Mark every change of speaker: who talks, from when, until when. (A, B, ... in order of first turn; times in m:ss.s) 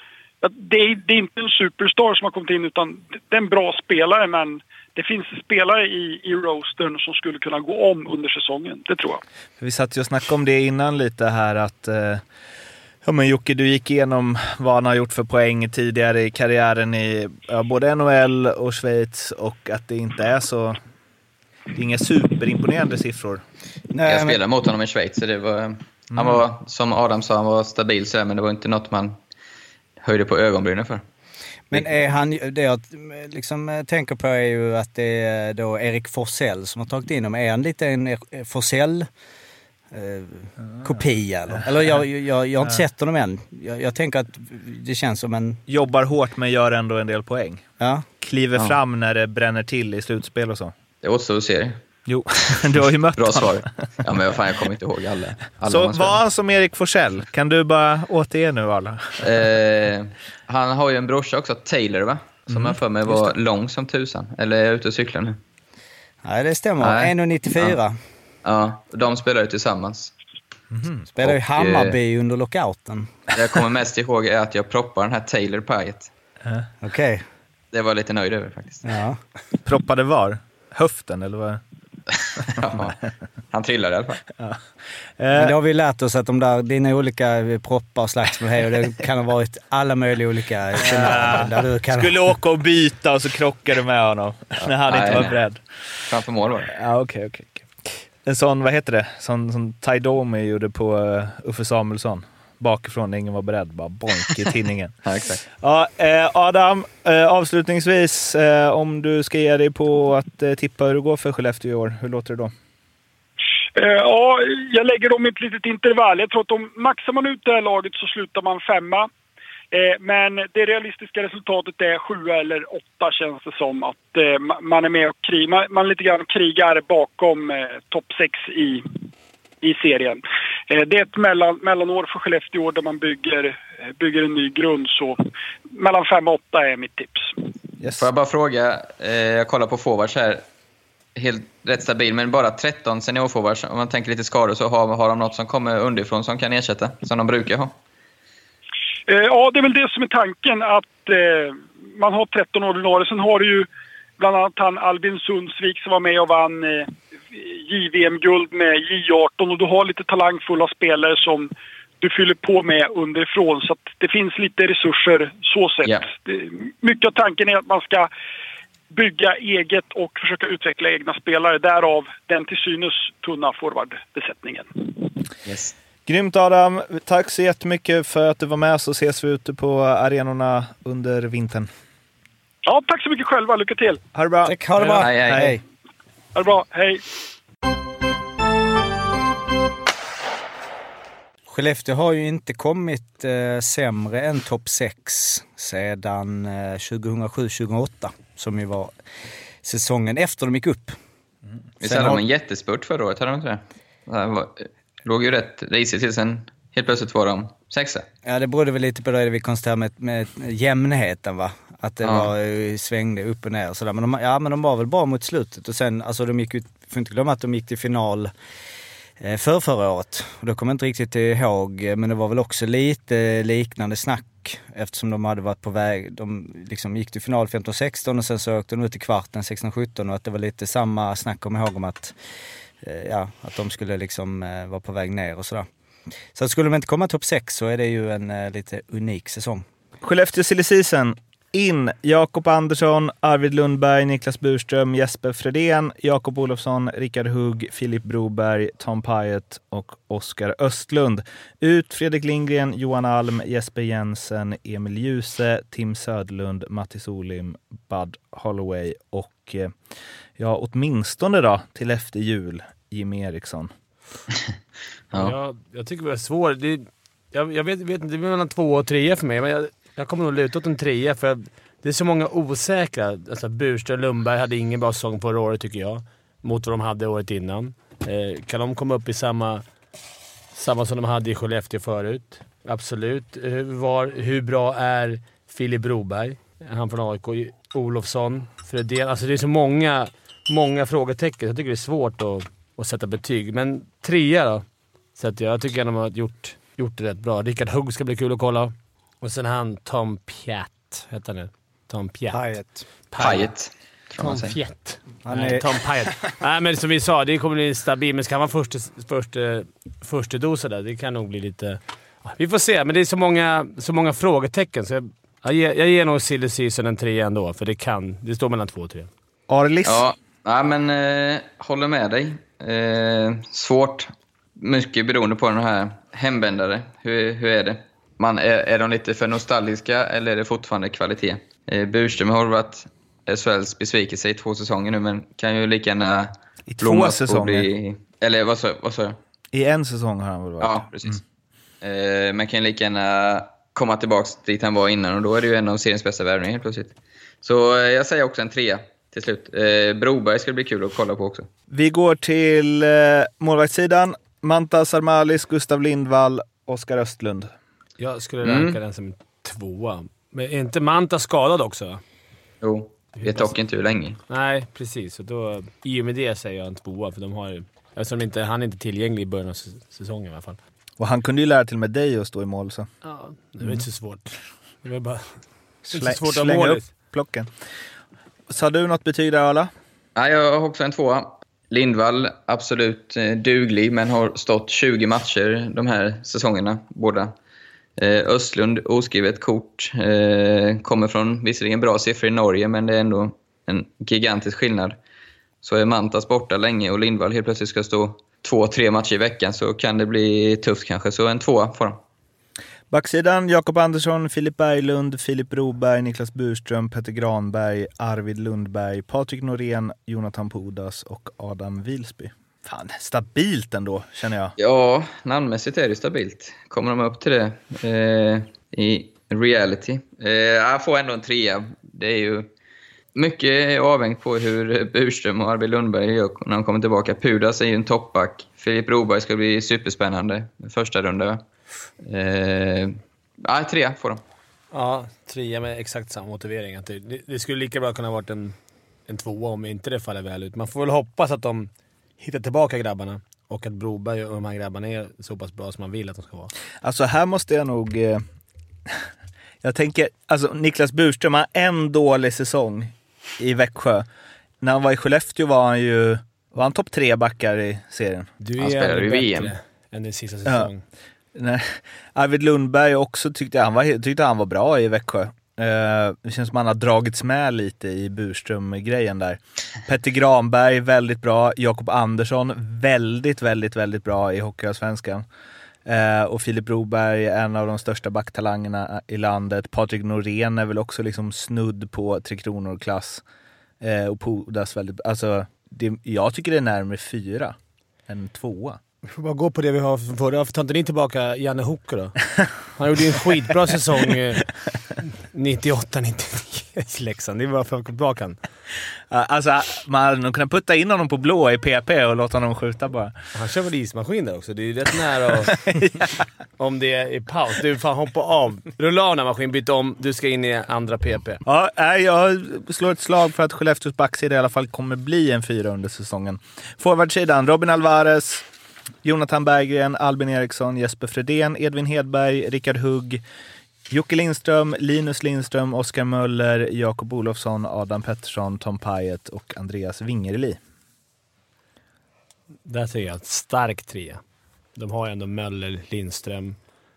0:00.4-0:09.2 A
0:09.6-0:12.2 B
0:13.0-0:20.8 B
0:21.7-0:23.4 B
0:23.9-0:24.4 C
0:24.0-0:29.2 D
0:26.1-0:26.4 B
0:30.0-0:31.0 D
0:31.7-0:39.1 C
0:39.9-0:45.6 C
0:40.7-0:41.0 B
0:45.7-0:47.6 B
0:47.8-0:48.0 C
0:48.2-0:50.7 B
0:51.0-0:51.8 D
0:52.1-0:53.6 B
0:53.2-0:56.2 D
0:55.6-0:59.4 B
0:59.2-1:05.4 D
1:02.5-1:03.3 B
1:06.2-1:08.0 C
1:06.8-1:07.8 D
1:08.4-1:10.1 D
1:10.7-1:11.0 B
1:11.1-1:13.1 C
1:11.2-1:12.0 D
1:13.3-1:16.1 D
1:16.8-1:17.2 C
1:17.7-1:18.9 D
1:18.8-1:19.2 C
1:19.6-1:21.6 B
1:22.4-1:23.0 D
1:23.5-1:24.2 D
1:25.2-1:25.5 B
1:25.3-1:32.2 C
1:30.8-1:35.6 B
1:34.6-1:35.4 D
1:36.1-1:36.7 D
1:36.7-1:37.7 B
1:38.2-1:44.9 B
1:45.0-1:45.4 D
1:45.6-1:52.5 B
1:53.8-1:59.1 A
1:59.7-2:08.8 A
2:09.6-2:15.2 A
2:15.7-2:17.4 A
2:17.8-2:18.1 B
2:18.0-2:20.4 D
2:21.2-2:27.8 D
2:29.1-2:33.7 A
2:34.2-2:41.5 A
2:42.0-2:48.1 A
2:48.9-2:54.6 A
2:55.4-2:55.7 D
2:56.1-3:01.7 B
3:02.6-3:04.0 A
3:04.1-3:05.5 B
3:04.4-3:05.6 C
3:04.8-3:05.5 D
3:06.3-3:07.0 A
3:11.5-3:18.9 C
3:19.6-3:20.9 C
3:21.8-3:28.0 D
3:21.8-3:22.2 C
3:28.2-3:38.3 C
3:32.0-3:32.3 D
3:39.2-3:52.1 C
3:52.8-3:55.7 C
3:56.3-3:59.6 C
4:00.0-4:19.8 B
4:20.4-4:23.7 B
4:25.1-4:39.6 E
4:40.5-4:54.6 E
4:55.2-5:02.4 E
5:02.3-5:02.8 C
5:03.1-5:03.5 E
5:03.2-5:04.6 D
5:04.2-5:19.1 E
5:05.2-5:05.6 C
5:19.5-5:20.0 B
5:19.8-5:39.2 D
5:36.7-5:37.7 B
5:39.5-5:41.2 B
5:40.6-5:41.2 D
5:41.8-5:51.5 D
5:51.7-5:57.5 B
5:58.0-6:02.0 E
5:58.4-5:58.8 D
6:02.6-6:04.2 D
6:03.2-6:03.5 E
6:04.3-6:10.6 E
6:11.0-6:12.9 B
6:13.0-6:16.9 E
6:15.8-6:17.5 B
6:18.5-6:19.7 B
6:20.2-6:27.3 D
6:28.0-6:35.0 D
6:35.6-6:42.0 D
6:42.9-6:54.5 B
6:54.6-7:02.5 D
7:03.1-7:11.4 D
7:12.0-7:14.2 D
7:14.7-7:18.5 E
7:19.1-7:26.5 E
7:26.8-7:28.2 B
7:29.6-7:34.0 B
7:34.6-7:38.3 B
7:38.4-7:40.8 E
7:38.6-7:39.5 D
7:41.3-7:55.2 B
7:55.8-8:03.2 B
8:03.8-8:07.6 B
8:08.1-8:08.8 B
8:09.1-8:12.2 E
8:12.8-8:18.4 E
8:19.1-8:23.1 B
8:23.3-8:25.5 E
8:25.5-8:26.1 B
8:26.6-8:31.4 E
8:31.4-8:38.4 B
8:39.0-8:43.2 B
8:43.9-8:50.6 B
8:52.6-8:54.2 E
8:54.7-8:56.6 E